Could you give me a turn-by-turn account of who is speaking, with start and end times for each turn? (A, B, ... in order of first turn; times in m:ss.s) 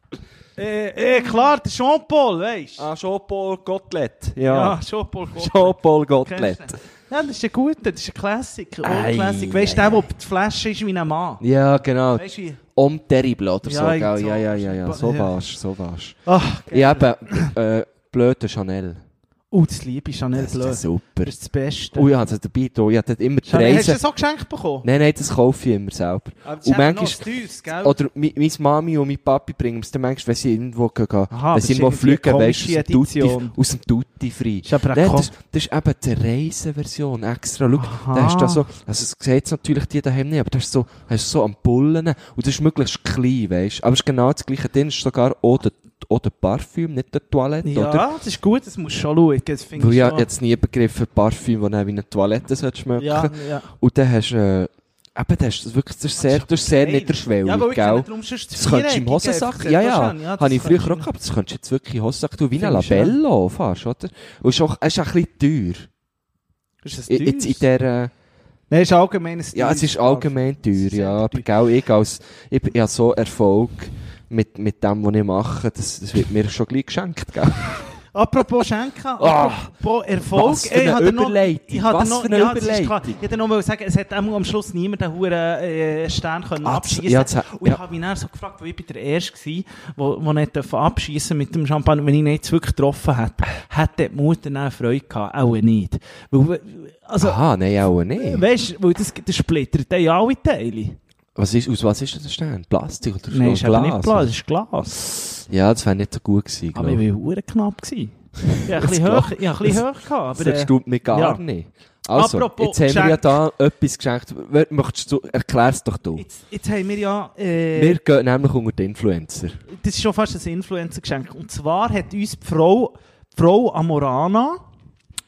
0:00.6-0:02.9 A
0:02.8-0:04.8 B
0:04.5-0:11.4 A
0:05.3-0:06.8 B
0:08.8-0:10.0 B
0:11.4-0:19.0 B
0:12.1-0:12.6 A
0:13.6-0:15.3 A
0:16.3-0:17.5 A
0:19.5-0:22.1 A
0:20.4-0:21.3 B
0:22.0-0:24.0 B
0:23.4-0:24.9 A
0:24.8-0:48.1 B
0:26.4-0:28.0 A
0:31.3-0:33.6 A
0:34.6-0:35.3 A
0:37.8-0:38.6 A
0:47.6-0:50.3 A
0:49.8-1:05.9 B
0:53.0-0:53.7 A
0:56.2-1:01.1 A
1:02.6-1:03.2 A
1:06.8-1:07.6 A
1:07.1-1:08.1 B
1:08.7-1:11.5 A
1:09.5-1:17.9 B
1:18.1-1:37.4 A
1:19.2-1:19.7 B
1:20.3-1:23.2 B
1:26.6-1:27.8 B
1:37.2-1:38.4 B
1:38.2-1:41.0 A
1:41.4-1:44.3 B
1:43.3-1:45.0 A
1:45.4-1:47.0 B
1:46.7-1:51.4 A
1:48.5-1:49.8 B
1:50.4-1:56.2 B
1:52.1-1:53.3 A
1:56.2-1:58.0 A
1:57.7-1:59.6 B
1:59.7-2:04.6 A